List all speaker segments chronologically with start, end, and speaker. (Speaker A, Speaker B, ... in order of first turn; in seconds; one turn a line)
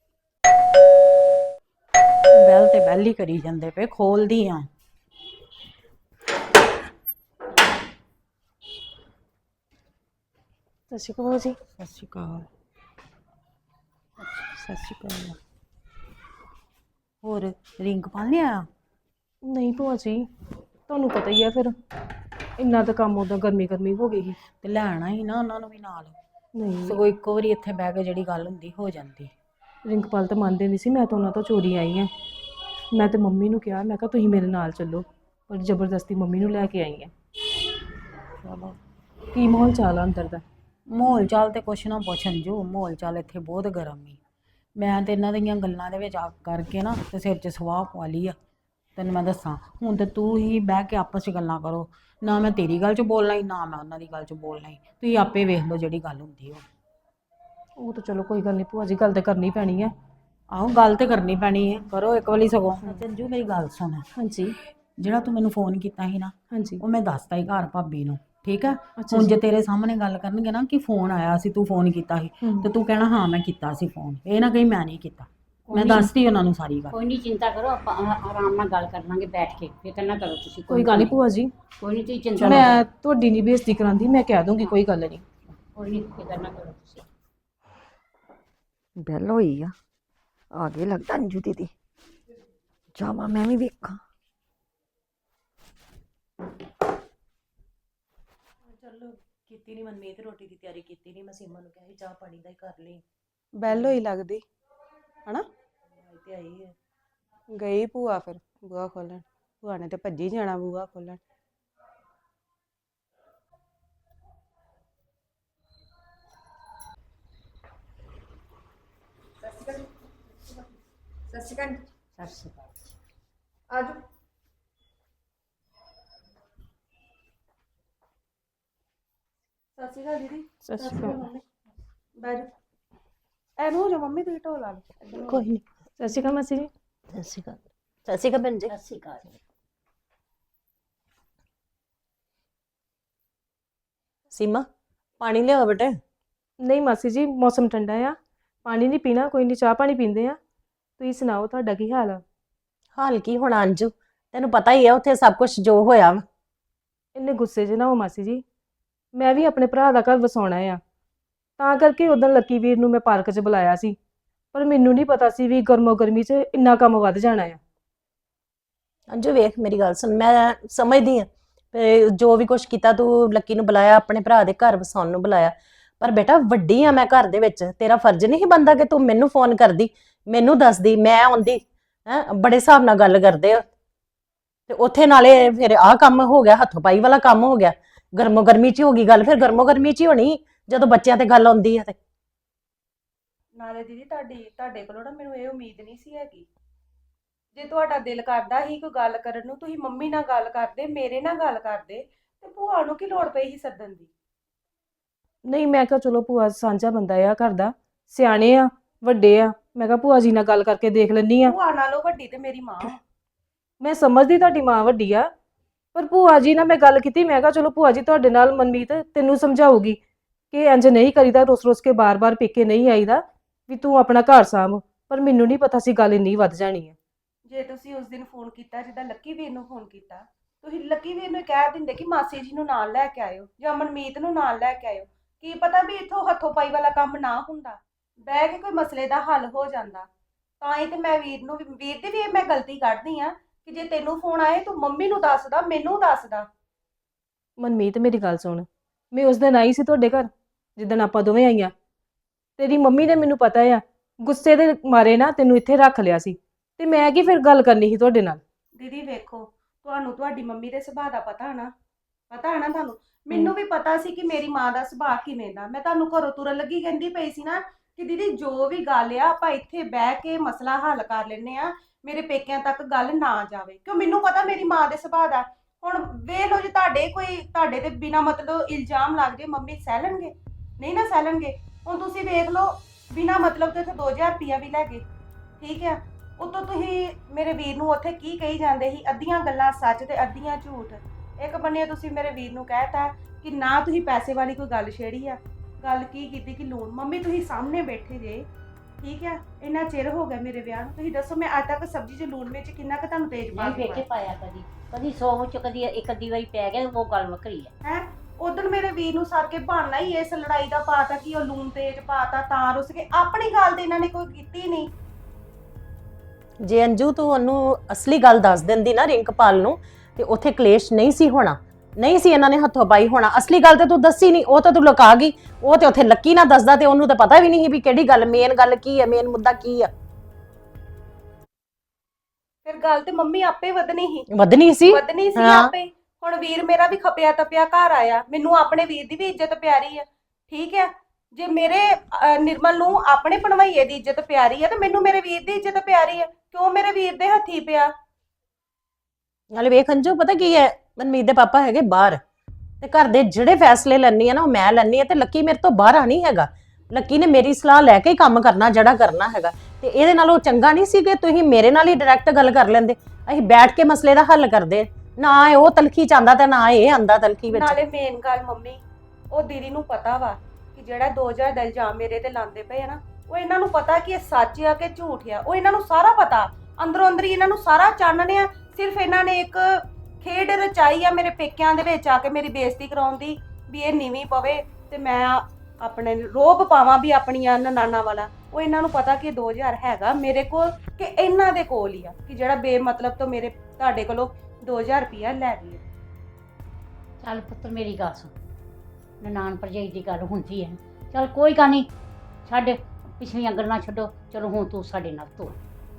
Speaker A: 2.3-4.7
Speaker B: 10.9-11.6
Speaker A: 11.8-12.5
Speaker C: 14.2-14.5
Speaker A: 14.5-15.4
Speaker A: 17.2-18.7
Speaker B: 19.4-20.2
Speaker B: 20.9-21.7
Speaker B: 22.6-24.4
Speaker A: 24.6-26.2
Speaker B: 26.5-27.0
Speaker A: 26.8-29.3
Speaker B: 29.9-32.1
Speaker B: 32.9-37.1
Speaker A: 38.4-38.8
Speaker B: 39.3-40.4
Speaker A: 40.9-44.2
Speaker A: 44.8-48.4
Speaker A: 49.0-56.6
Speaker B: 57.8-59.9
Speaker A: 60.5-64.0
Speaker B: 64.2-64.5
Speaker A: 65.0-77.0
Speaker B: 66.5-66.8
Speaker B: 69.0-69.3
Speaker B: 72.4-72.7
Speaker B: 75.7-76.1
Speaker C: 76.9-81.2
Speaker B: 80.7-81.5
Speaker C: 81.8-82.8
Speaker B: 82.3-85.2
Speaker C: 85.7-87.0
Speaker D: 89.0-89.7
Speaker D: 90.5-91.7
Speaker D: 93.0-94.0
Speaker E: 98.7-103.0
Speaker F: 103.6-104.4
Speaker E: 103.7-104.0
Speaker E: 106.0-106.7
Speaker F: 107.6-111.2
Speaker D: 119.4-119.9
Speaker D: 121.3-121.8
Speaker C: 122.2-122.7
Speaker D: 123.7-124.0
Speaker F: 129.8-131.4
Speaker B: 130.6-131.3
Speaker F: 132.2-132.5
Speaker F: 133.6-135.4
Speaker B: 135.3-136.7
Speaker E: 137.1-138.7
Speaker C: 138.7-139.3
Speaker E: 144.3-144.7
Speaker E: 145.2-146.0
Speaker B: 146.6-150.4
Speaker B: 151.0-152.2
Speaker E: 152.9-156.2
Speaker B: 157.1-158.4
Speaker B: 159.1-160.8
Speaker B: 161.6-163.9
Speaker B: 164.5-167.6
Speaker E: 169.1-183.6
Speaker E: 184.7-191.9
Speaker F: 193.6-196.5
Speaker F: 197.5-204.1
Speaker B: 205.4-211.5
Speaker F: 211.4-212.9
Speaker B: 213.8-215.3
Speaker B: 215.9-220.0
Speaker B: 220.5-226.9
Speaker F: 227.4-240.1
Speaker F: 240.6-246.5
Speaker B: 247.6-251.7
Speaker B: 252.6-258.4
Speaker F: 258.8-261.7
Speaker F: 262.3-285.0
Speaker F: 285.6-298.4
Speaker F: 299.0-304.1
Speaker C: 303.5-307.7
Speaker F: 307.8-314.9
Speaker E: 316.6-329.9
Speaker F: 332.6-334.2
Speaker E: 334.3-335.7
Speaker F: 334.9-347.9
Speaker E: 349.5-352.2
Speaker E: 352.8-367.8
Speaker F: 367.5-379.6
Speaker F: 380.2-395.8
Speaker C: 397.2-398.3
Speaker C: 399.2-401.9
Speaker C: 402.4-405.6